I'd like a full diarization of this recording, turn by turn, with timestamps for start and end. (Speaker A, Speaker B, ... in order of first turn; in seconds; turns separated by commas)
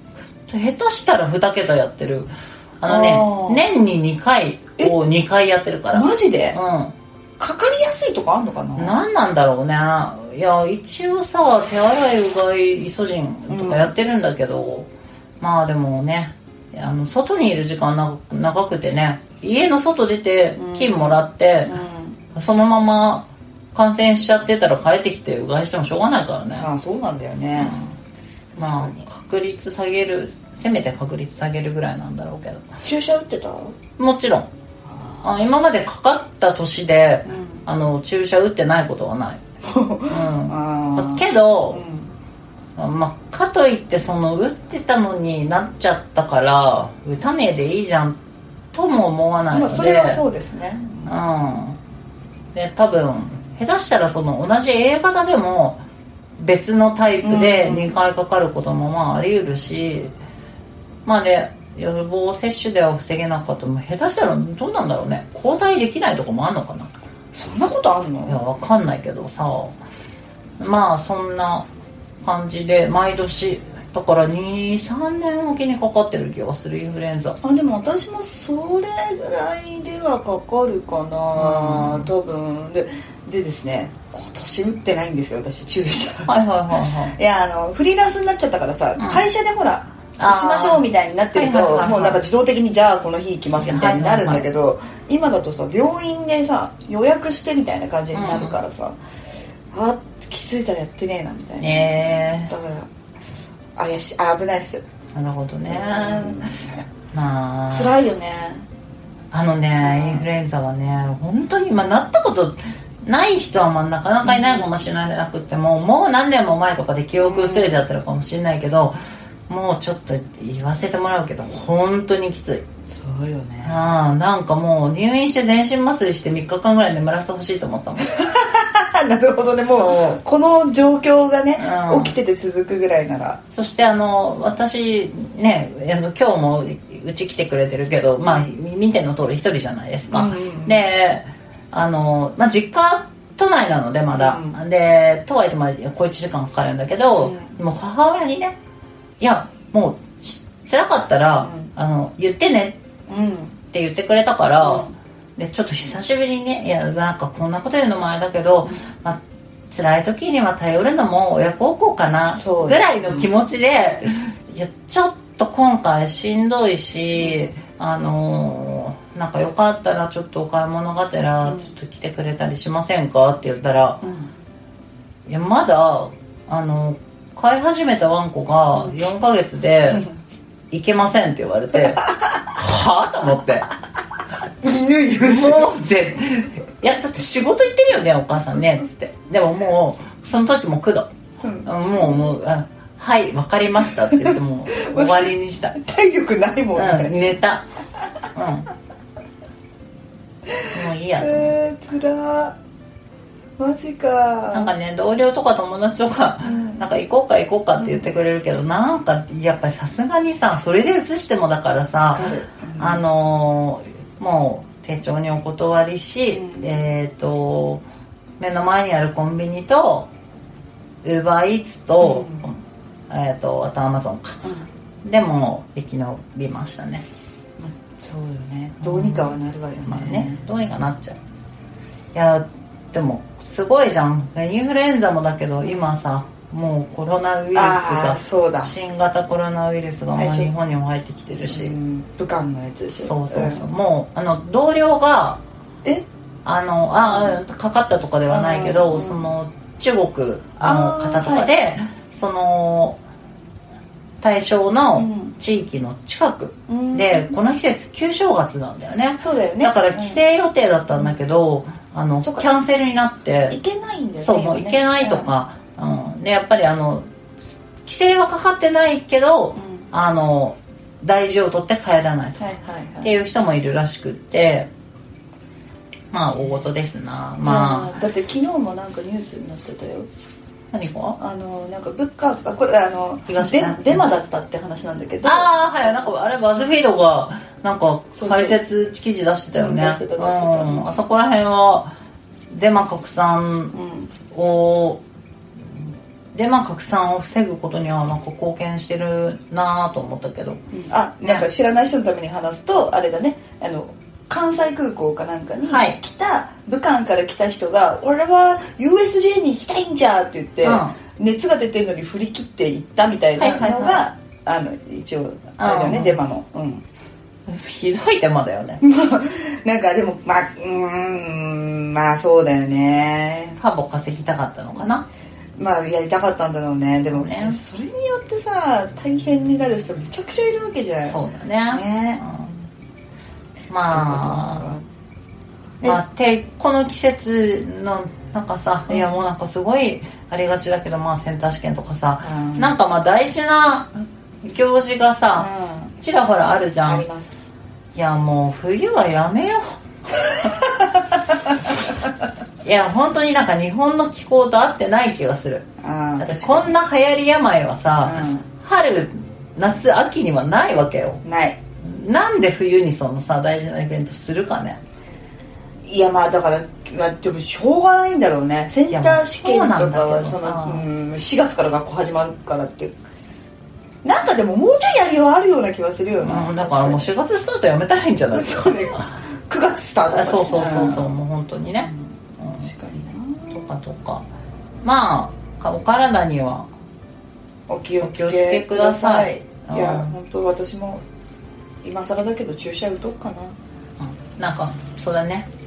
Speaker A: 0.5-6.9, Speaker B: 2.8-3.6, Speaker B: 5.9-6.6, Speaker B: 7.4-9.0, Speaker A: 8.8-14.9, Speaker B: 13.5-13.9, Speaker A: 15.4-21.7, Speaker B: 20.6-22.2, Speaker A: 22.3-26.7, Speaker B: 26.6-27.8, Speaker A: 27.6-27.9, Speaker B: 28.5-29.0, Speaker A: 28.6-32.6, Speaker B: 32.8-33.8, Speaker A: 34.0-34.5, Speaker B: 34.9-35.2, Speaker A: 35.2-39.4, Speaker B: 37.2-37.6, Speaker B: 39.6-42.1, Speaker A: 40.1-41.8, Speaker A: 42.8-48.2, Speaker A: 48.7-50.2, Speaker B: 49.5-51.1, Speaker A: 51.0-51.8, Speaker A: 52.5-55.8, Speaker A: 56.4-60.1, Speaker B: 57.2-58.0, Speaker A: 61.0-66.9, Speaker B: 67.3-68.4, Speaker A: 68.3-69.8, Speaker A: 70.6-71.7, Speaker A: 72.2-77.4, Speaker B: 77.4-86.3, Speaker A: 81.3-82.1, Speaker A: 86.2-87.1, Speaker B: 87.1-99.0, Speaker A: 89.0-89.2, Speaker A: 90.2-92.2, Speaker A: 93.6-94.5, Speaker A: 98.1-98.6, Speaker B: 99.7-102.9, Speaker A: 101.6-102.5, Speaker B: 103.8-104.8, Speaker A: 105.1-106.5, Speaker B: 105.7-106.8, Speaker A: 107.1-108.0, Speaker B: 107.7-108.7, Speaker A: 109.3-119.0, Speaker B: 109.8-110.2, Speaker B: 114.2-114.6, Speaker B: 117.2-117.8, Speaker A: 119.5-122.6, Speaker B: 122.9-123.8, Speaker A: 123.6-128.2, Speaker B: 128.1-133.4, Speaker A: 129.7-130.2, Speaker A: 131.6-132.2, Speaker A: 133.5-148.5, Speaker B: 140.1-140.8, Speaker B: 144.1-144.6, Speaker B: 147.2-147.5, Speaker A: 149.2-152.8, Speaker B: 151.4-151.7, Speaker B: 153.1-153.6, Speaker A: 153.7-174.0, Speaker B: 154.6-154.9, Speaker B: 162.4-163.3, Speaker B: 167.2-167.5, Speaker B: 174.0-174.3, Speaker A: 175.3-180.1, Speaker A: 180.7-183.7, Speaker B: 184.6-185.7, Speaker A: 185.2-191.1, Speaker B: 191.4-191.7, Speaker A: 191.6-195.7, Speaker B: 194.2-197.4, Speaker A: 196.7-197.7, Speaker A: 198.3-198.7, Speaker B: 200.5-202.5, Speaker A: 200.7-201.6, Speaker B: 203.6-204.7, Speaker A: 204.5-217.8, Speaker B: 206.4-206.8, Speaker B: 212.1-213.0, Speaker B: 216.3-216.8, Speaker A: 218.4-220.1, Speaker A: 221.0-222.6, Speaker B: 222.0-222.4, Speaker A: 223.1-224.4, Speaker A: 225.0-227.0, Speaker B: 227.6-230.4, Speaker A: 228.8-231.2, Speaker A: 232.1-241.7, Speaker B: 235.6-235.9, Speaker B: 237.5-238.7, Speaker B: 240.2-240.5, Speaker B: 241.5-243.7, Speaker A: 243.0-245.4, Speaker A: 246.4-253.0, Speaker B: 247.0-247.4, Speaker B: 248.3-249.3, Speaker B: 250.6-251.5, Speaker A: 254.2-263.6, Speaker B: 255.0-255.3, Speaker B: 256.7-257.3, Speaker B: 259.2-260.2, Speaker B: 263.5-265.3, Speaker A: 264.2-267.1, Speaker A: 267.8-272.4, Speaker B: 269.6-269.9, Speaker B: 272.4-273.1, Speaker A: 273.0-274.7, Speaker A: 276.1-278.0, Speaker B: 277.4-280.1, Speaker A: 280.7-281.2, Speaker B: 281.2-285.5, Speaker A: 283.3-284.1, Speaker A: 285.2-291.9, Speaker B: 288.1-288.6, Speaker B: 289.6-290.9, Speaker A: 292.5-293.7, Speaker B: 293.7-294.1, Speaker A: 294.3-295.0, Speaker A: 296.3-300.6, Speaker B: 300.7-316.8, Speaker A: 305.6-306.0, Speaker A: 310.6-310.9, Speaker A: 313.4-314.0, Speaker A: 315.6-316.2, Speaker A: 317.5-318.8, Speaker B: 318.8-323.6, Speaker A: 323.6-325.0, Speaker B: 325.6-331.2, Speaker A: 327.1-327.6, Speaker A: 331.0-332.6, Speaker B: 331.7-332.2, Speaker A: 333.7-334.7, Speaker B: 333.9-334.8, Speaker A: 335.8-345.5, Speaker B: 338.9-339.1, Speaker B: 342.2-342.7, Speaker B: 345.4-345.9, Speaker A: 346.0-347.0, Speaker B: 346.8-347.5, Speaker A: 347.9-350.4, Speaker A: 352.6-355.7, Speaker B: 355.8-356.7, Speaker A: 356.2-361.2, Speaker B: 358.0-358.4, Speaker B: 361.2-361.6, Speaker A: 361.8-364.8, Speaker B: 365.8-372.9, Speaker A: 368.9-370.9, Speaker B: 374.0-377.1, Speaker A: 376.2-379.1, Speaker B: 378.3-381.1, Speaker A: 380.1-382.7, Speaker B: 381.8-383.6, Speaker A: 383.5-384.2, Speaker A: 384.8-386.7, Speaker B: 387.7-391.0, Speaker A: 388.0-390.1, Speaker B: 391.8-393.6, Speaker A: 394.0-395.5